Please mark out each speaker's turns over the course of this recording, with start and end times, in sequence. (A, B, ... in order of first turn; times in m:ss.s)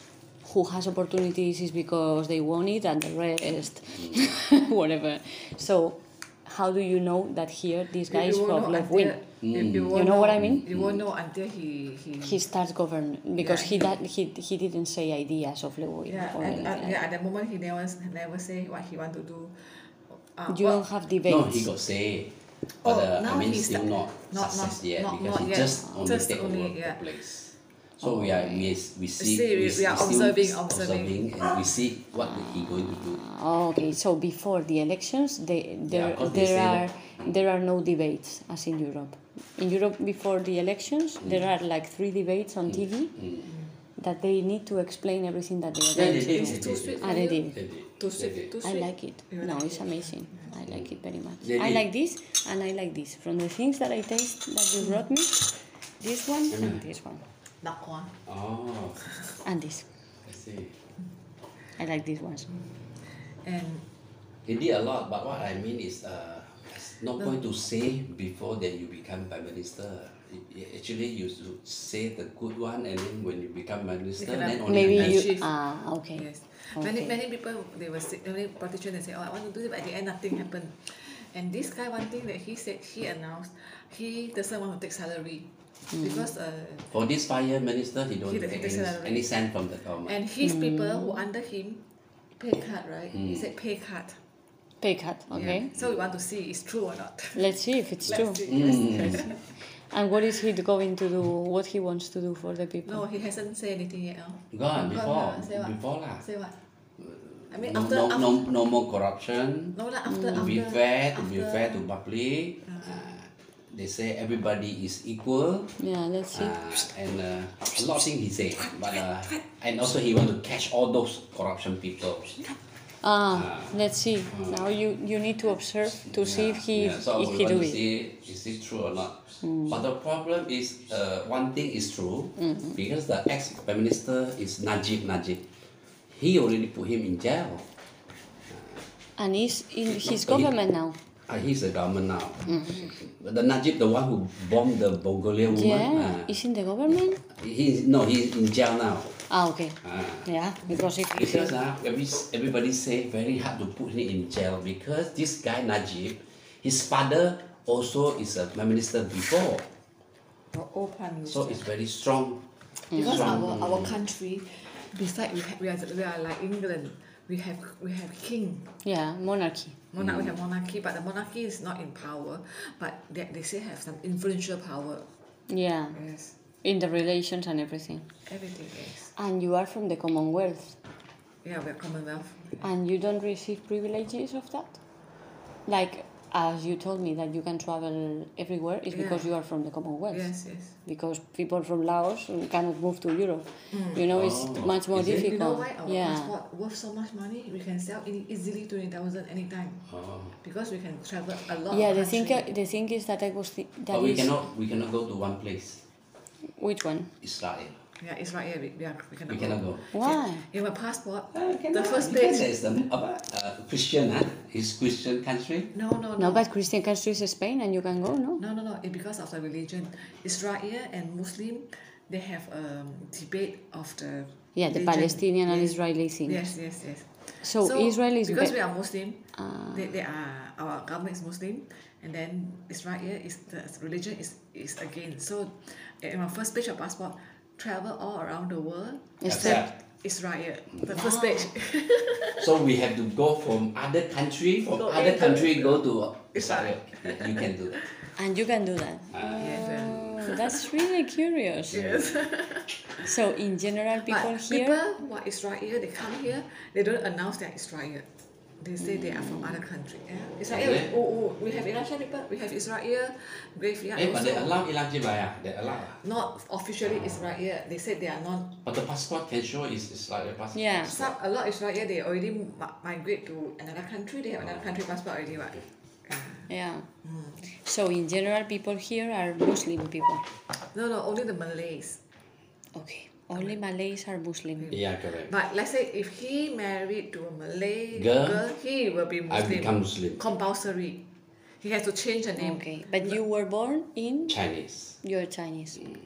0:00.4-0:09.2 A
0:04.0-0:04.2 B
0:08.1-0:12.4 C
0:09.4-0:11.0 B
0:09.9-0:10.7 A
0:12.2-0:17.0 A
0:13.4-0:13.9 C
0:16.1-0:20.8 C
0:20.5-0:21.7 A
0:21.3-0:33.2 B
0:22.8-0:27.0 C
0:28.0-0:28.7 A
0:29.2-0:31.6 C
0:32.9-0:43.2 A
0:35.9-0:37.3 B
0:42.7-0:43.5 B
0:44.0-0:47.6 A
0:45.9-0:47.0 B
0:46.0-0:50.5 C
0:47.5-0:48.5 B
0:48.6-0:57.2 A
0:50.7-0:51.8 B
0:56.5-0:56.8 B
0:57.6-0:58.2 C
0:58.3-0:59.0 B
0:59.4-0:59.9 A
1:00.2-1:00.8 B
1:01.8-1:02.5 A
1:03.0-1:03.8 C
1:04.4-1:15.3 B
1:14.2-1:15.5 C
1:14.7-1:16.3 A
1:16.2-1:26.9 C
1:16.8-1:17.1 A
1:26.0-1:26.2 A
1:26.9-1:30.2 B
1:28.3-1:29.3 C
1:30.0-1:31.8 C
1:30.4-1:31.2 A
1:32.4-1:34.2 C
1:34.8-1:35.7 A
1:35.3-1:37.6 C
1:35.4-1:35.8 B
1:37.4-1:43.0 A
1:38.1-1:39.4 C
1:38.4-1:39.3 B
1:42.9-1:46.6 C
1:44.5-1:46.2 B
1:47.0-1:49.8 B
1:47.5-1:48.5 C
1:49.8-1:51.8 C
1:50.1-1:50.5 A
1:50.3-1:55.8 B
1:52.7-1:53.0 C
1:55.8-1:56.8 A
1:56.3-2:02.4 B
1:58.6-1:59.4 C
2:03.0-2:07.8 A
2:03.3-2:03.8 B
2:04.3-2:04.7 B
2:06.1-2:15.5 B
2:09.4-2:09.8 A
2:12.4-2:12.8 A
2:16.1-2:17.7 B
2:18.5-2:18.8 B
2:19.2-2:21.0 A
2:19.9-2:20.5 B
2:21.3-2:26.3 B
2:22.5-2:22.9 A
2:25.5-2:27.2 A
2:27.3-2:29.2 B
2:29.3-2:31.6 A
2:29.8-2:30.3 B
2:31.2-2:39.7 B
2:40.5-2:41.7 C
2:41.3-2:43.9 B
2:42.9-2:43.4 A
2:42.9-2:48.8 C
2:48.8-2:49.8 A
2:49.9-2:55.1 C
2:50.0-2:50.3 B
2:55.5-2:56.0 A
2:55.9-2:56.4 C
2:56.6-2:58.1 A
2:58.3-2:59.1 C
2:59.1-3:00.8 A
3:01.4-3:02.6 C
3:02.6-3:04.8 A
3:05.7-3:10.3 A
3:08.9-3:09.3 C
3:10.1-3:10.8 C
3:10.8-3:16.3 A
3:13.7-3:14.1 C
3:14.1-3:15.3 B
3:15.1-3:19.9 C
3:19.9-3:20.3 B
3:20.4-3:22.5 C
3:21.7-3:24.4 A
3:23.9-3:25.8 B
3:26.6-3:27.1 A
3:27.2-3:27.8 B
3:28.0-3:32.5 C
3:29.3-3:29.9 B
3:29.9-3:30.4 A
3:31.3-3:35.7 B
3:35.7-3:36.5 C
3:36.2-3:38.4 A
3:38.4-4:02.6 C
3:44.6-3:46.5 A
3:47.4-3:48.6 A
3:49.4-3:49.9 A
3:59.2-3:59.7 A
3:59.3-3:59.7 B
4:00.9-4:01.5 A
4:02.4-4:07.9 B
4:04.7-4:08.0 C
4:08.2-4:11.8 A
4:09.1-4:10.0 B
4:09.4-4:10.7 C
4:11.7-4:13.1 C
4:11.7-4:12.2 B
4:13.0-4:14.8 A
4:14.0-4:24.6 C
4:18.8-4:19.6 A
4:20.5-4:20.9 B
4:24.0-4:26.0 B
4:25.8-4:28.6 C
4:28.6-4:31.2 B
4:30.5-4:31.0 A
4:30.9-4:36.5 C
4:34.4-4:34.7 B
4:36.5-4:36.9 A
4:37.0-4:37.5 C
4:37.5-4:40.3 A
4:40.7-4:42.0 C
4:42.7-4:44.7 A
4:44.6-4:51.1 C
4:44.7-4:45.3 B
4:47.9-4:48.5 B
4:49.3-4:50.2 B
4:51.6-4:53.2 C
4:52.4-4:54.4 A
4:54.3-4:55.0 B
4:55.0-4:55.8 A